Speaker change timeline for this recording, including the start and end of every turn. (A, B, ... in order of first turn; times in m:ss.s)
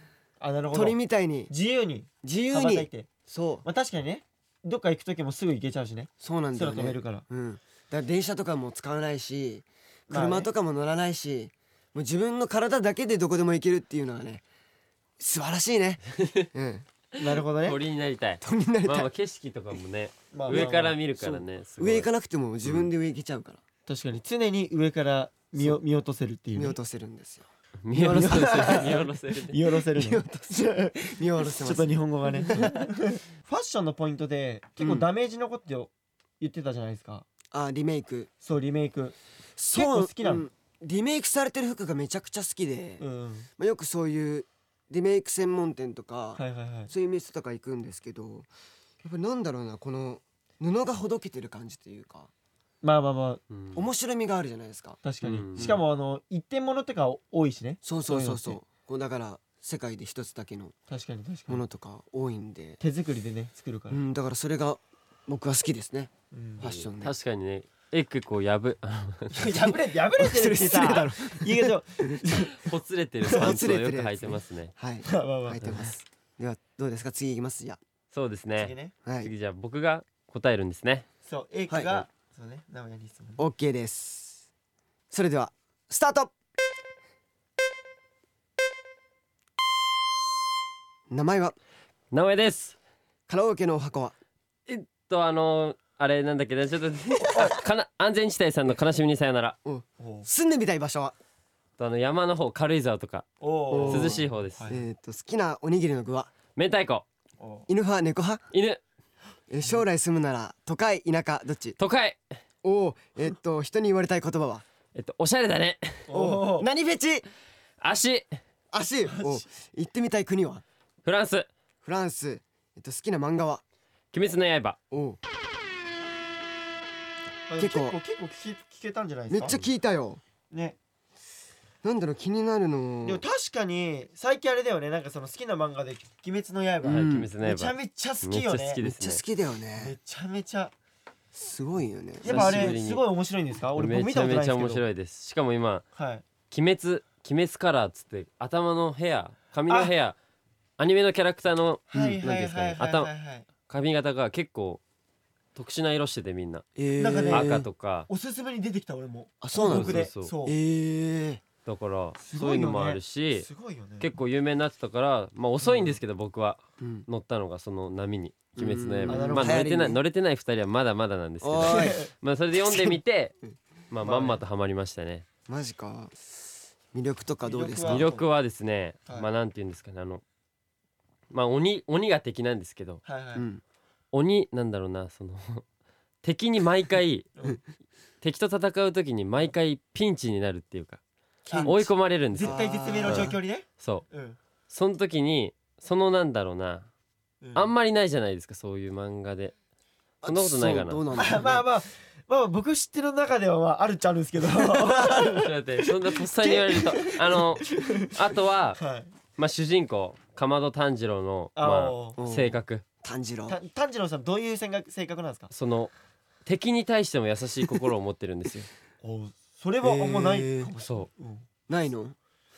0:00.4-0:03.1 A
0:00.7-0:01.5 B
0:02.2-0:03.6 B
0:03.6-0:07.2 A
0:06.2-0:14.4 B
0:10.1-0:10.5 A
0:15.2-0:16.0 B
0:16.2-0:16.5 C
0:16.5-0:16.8 B
0:17.2-0:17.8 A
0:17.5-0:22.1 C
0:18.4-0:19.1 B
0:20.3-0:21.0 A
0:21.2-0:23.6 B
0:23.9-0:26.8 A
0:26.6-0:27.5 B
0:27.8-0:29.6 C
0:27.9-0:37.3 A
0:29.9-0:31.9 B
0:32.4-0:32.9 B
0:34.8-0:35.1 B
0:37.5-0:38.3 B
0:38.4-0:39.2 A
0:39.6-0:43.0 B
0:39.7-0:40.5 A
0:43.0-0:43.5 A
0:43.6-0:48.5 B
0:46.4-0:46.9 A
0:49.0-0:52.3 B
0:52.8-0:53.4 A
0:53.5-0:53.8 C
0:53.8-0:55.0 B
0:55.0-0:58.6 A
0:55.2-0:55.8 C
0:57.8-1:00.7 B
1:00.9-1:01.6 A
1:01.5-1:02.8 B
1:02.8-1:04.0 A
1:03.9-1:07.1 B
1:06.3-1:06.7 A
1:06.6-1:09.4 C
1:09.3-1:12.7 A
1:10.2-1:11.7 B
1:12.5-1:14.7 C
1:13.3-1:13.6 A
1:13.3-1:17.8 B
1:15.0-1:16.0 A
1:18.1-1:21.1 C
1:18.6-1:18.9 A
1:19.0-1:19.3 B
1:21.3-1:23.4 A
1:21.7-1:22.0 B
1:23.4-1:24.4 B
1:25.1-1:26.3 B
1:31.1-1:31.6 B
1:32.1-1:32.8 C
1:33.3-1:34.1 B
1:34.7-1:39.6 C
1:39.6-1:41.2 B
1:40.0-1:40.3 A
1:41.8-1:43.3 C
1:43.4-1:44.8 A
1:43.7-1:46.3 B
1:43.8-1:44.7 C
1:46.6-1:47.1 C
1:47.4-1:47.7 A
1:47.7-1:48.4 B
1:48.5-1:48.8 C
1:49.5-1:51.8 B
1:51.8-1:52.2 C
1:52.6-1:54.6 B
1:55.0-1:56.1 C
1:56.1-1:56.7 A
1:56.1-1:57.2 B
1:57.8-1:58.4 C
1:58.7-2:00.6 B
1:59.1-1:59.4 A
2:01.0-2:01.5 C
2:01.8-2:03.6 B
2:04.1-2:04.8 C
2:04.9-2:05.2 B
2:07.5-2:09.6 A
2:07.6-2:08.0 B
2:09.3-2:10.2 B
2:10.5-2:10.8 A
2:11.8-2:13.2 B
2:13.0-2:18.8 A
2:16.8-2:17.3 B
2:16.8-2:19.2 C
2:18.8-2:19.9 B
2:19.8-2:20.7 A
2:21.3-2:22.8 B
2:22.2-2:24.8 A
2:22.2-2:23.0 C
2:23.8-2:25.8 C
2:26.0-2:26.2 A
2:26.5-2:30.2 C
2:30.8-2:31.9 C
2:31.9-2:33.4 A
2:32.0-2:32.8 B
2:32.8-2:33.1 C
2:33.7-2:34.8 C
2:35.6-2:36.6 C
2:36.8-2:37.7 B
2:37.0-2:40.6 A
2:37.3-2:38.1 C
2:39.4-2:41.4 B
2:39.6-2:40.3 C
2:41.6-2:43.5 C
2:42.2-2:44.1 A
2:44.0-2:53.4 C
2:45.6-2:46.0 A
2:46.8-2:47.0 B
2:48.6-2:50.0 B
2:49.1-2:49.6 A
2:51.4-2:52.0 B
2:51.7-2:52.1 A
2:52.7-2:53.5 B
2:53.9-2:55.3 C
2:54.0-2:54.4 A
2:55.5-2:56.2 B
2:56.9-2:58.0 B
2:57.4-2:58.2 A
2:57.9-3:00.2 C
3:01.3-3:03.0 C
3:03.0-3:03.5 A
3:03.4-3:03.6 B
3:04.1-3:05.7 C
3:06.2-3:07.3 C
3:08.2-3:11.0 C
3:11.4-3:13.4 B
3:11.6-3:14.0 C
3:12.3-3:14.4 A
3:14.7-3:16.9 C
3:17.4-3:17.7 A
3:17.6-3:19.5 C
3:20.2-3:21.6 B
3:20.2-3:21.0 C
3:21.2-3:28.2 A
3:25.1-3:28.8 C
3:28.8-3:29.1 A
3:29.4-3:32.8 C
3:31.6-3:32.2 A
3:32.2-3:33.6 B
3:33.5-3:35.5 A
3:35.5-3:35.9 C
3:36.4-3:38.7 C
3:39.0-3:41.5 A
3:39.8-3:40.7 B
3:40.8-3:41.1 C
3:41.7-3:42.2 B